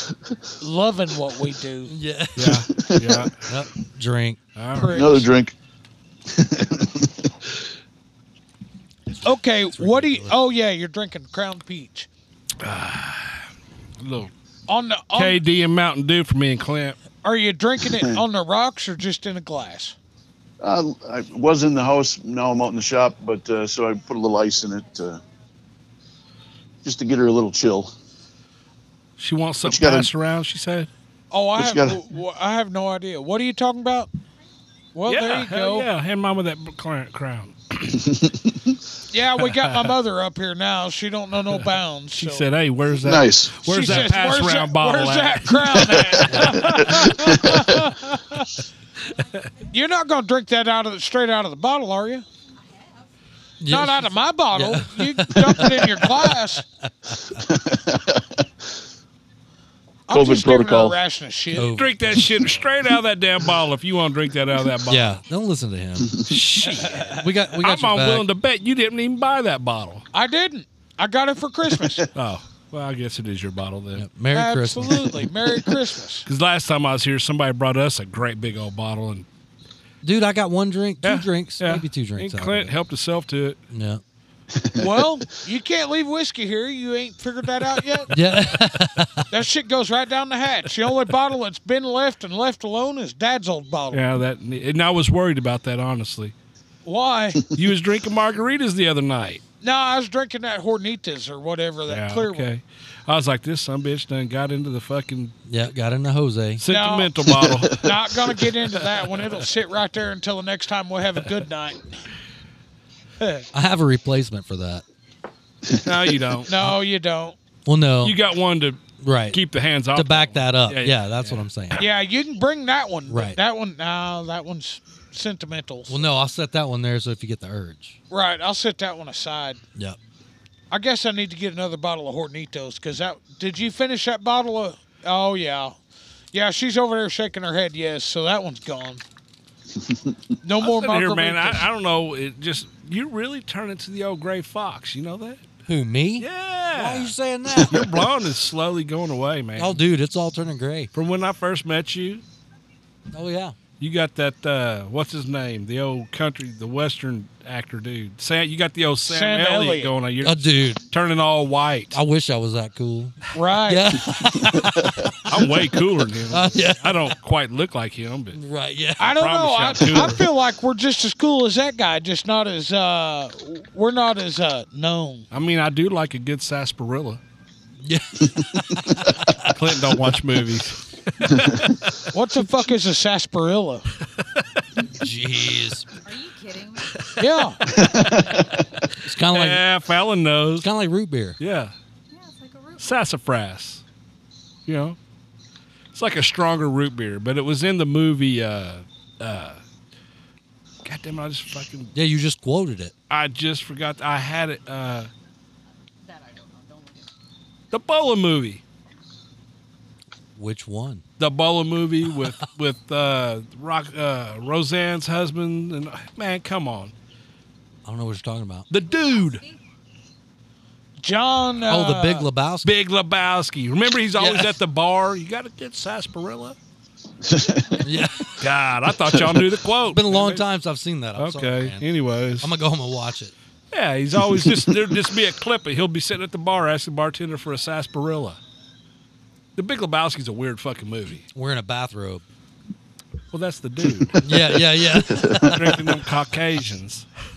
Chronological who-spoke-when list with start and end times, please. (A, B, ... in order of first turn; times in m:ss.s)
0:00.6-0:01.9 A
0:01.9-0:02.7 B
0:02.4-0:03.3 C
0:02.4-0:03.3 D
0:03.4-0:04.4 B
0:04.6-0:05.2 C
0:04.8-0:05.3 A
0:04.9-0:05.6 D
0:06.3-0:07.3 D
0:09.2-0:12.1 A
0:09.7-0:10.4 B
0:12.6-0:13.5 C
0:14.0-0:14.3 C
0:14.7-0:15.4 A
0:15.1-0:17.0 C
0:17.2-0:20.0 A
0:20.6-0:25.2 D
0:26.8-0:27.9 D
0:29.2-0:30.9 C
0:29.6-0:30.1 D
0:31.3-0:34.1 A
0:31.6-0:32.0 D
0:34.9-0:35.9 A
0:35.1-0:38.0 C
0:38.1-0:38.7 D
0:39.1-0:42.4 A
0:39.4-0:39.9 C
0:42.2-0:45.8 C
0:43.0-0:44.0 D
0:43.6-0:48.5 A
0:45.8-0:47.7 D
0:49.7-0:52.2 A
0:53.6-0:56.3 B
0:53.7-0:56.6 A
0:57.4-0:58.4 D
1:00.1-1:01.8 A
1:00.1-1:01.0 D
1:01.6-1:02.6 B
1:01.7-1:05.2 C
1:04.9-1:08.3 B
1:06.3-1:07.0 C
1:06.8-1:07.2 A
1:07.5-1:10.0 C
1:10.1-1:12.1 A
1:12.2-1:14.1 C
1:14.0-1:15.2 B
1:14.3-1:16.3 A
1:16.3-1:19.3 C
1:20.0-1:22.8 B
1:21.0-1:23.6 C
1:23.7-1:24.0 B
1:24.6-1:24.9 D
1:24.8-1:28.1 A
1:28.1-1:29.2 B
1:29.3-1:34.0 A
1:33.9-1:36.3 C
1:36.8-1:37.4 A
1:37.6-1:39.4 C
1:39.6-1:42.5 A
1:41.9-1:45.4 C
1:45.5-1:46.6 B
1:46.6-1:47.9 C
1:46.7-1:47.1 A
1:47.7-1:52.0 A
1:53.2-1:53.4 A
1:53.5-1:54.8 B
1:55.8-1:56.5 C
1:56.5-1:57.4 A
1:57.6-1:58.2 B
1:58.0-2:01.4 C
1:59.0-1:59.4 B
1:59.9-2:01.8 B
2:01.8-2:06.0 A
2:03.1-2:03.4 B
2:05.9-2:08.0 B
2:08.1-2:09.6 A
2:10.7-2:15.8 A
2:16.3-2:19.0 A
2:20.4-2:21.7 A
2:20.6-2:25.5 C
2:25.7-2:27.8 B
2:26.2-2:27.1 C
2:27.7-2:29.8 C
2:29.6-2:30.9 B
2:30.9-2:32.2 C
2:33.1-2:33.6 B
2:33.8-2:42.0 C
2:39.1-2:39.9 A
2:40.2-2:40.8 B
2:41.9-2:45.3 B
2:43.3-2:43.9 A
2:45.3-2:48.4 C
2:46.3-2:47.2 B
2:48.3-2:49.2 B
2:49.0-2:55.3 A
2:49.0-2:50.2 C
2:55.3-2:57.2 C
2:57.8-2:59.6 B
2:59.5-3:02.0 C
3:02.1-3:03.9 A
3:05.0-3:05.9 B
3:06.0-3:07.0 E
3:07.2-3:07.6 A
3:07.7-3:08.5 D
3:09.0-3:09.6 B
3:09.3-3:10.7 C
3:10.6-3:11.4 B
3:11.4-3:11.7 C
3:12.1-3:12.9 E
3:12.8-3:13.8 C
3:14.7-3:15.0 C
3:15.9-3:19.6 C
3:20.8-3:21.9 C
3:21.9-3:22.9 B
3:23.1-3:25.1 C
3:26.0-3:27.1 E
3:27.7-3:28.6 C
3:30.4-3:31.0 B
3:31.2-3:36.9 C
3:37.8-3:38.7 B
3:38.7-3:39.4 C
3:39.0-3:39.6 E
3:41.0-3:42.3 A
3:41.7-3:42.7 B
3:42.6-3:46.6 C
3:44.2-3:44.5 B
3:47.2-3:47.8 D
3:47.8-3:48.5 B
3:48.4-3:50.4 C
3:49.9-3:51.8 B
3:51.2-3:52.5 C
3:52.4-3:53.3 B
3:53.7-3:58.4 C
3:54.4-3:54.8 D
3:59.6-4:01.3 C
4:01.3-4:02.2 B
4:03.3-4:04.2 C
4:04.2-4:05.6 B
4:05.1-4:05.8 D
4:05.3-4:07.1 C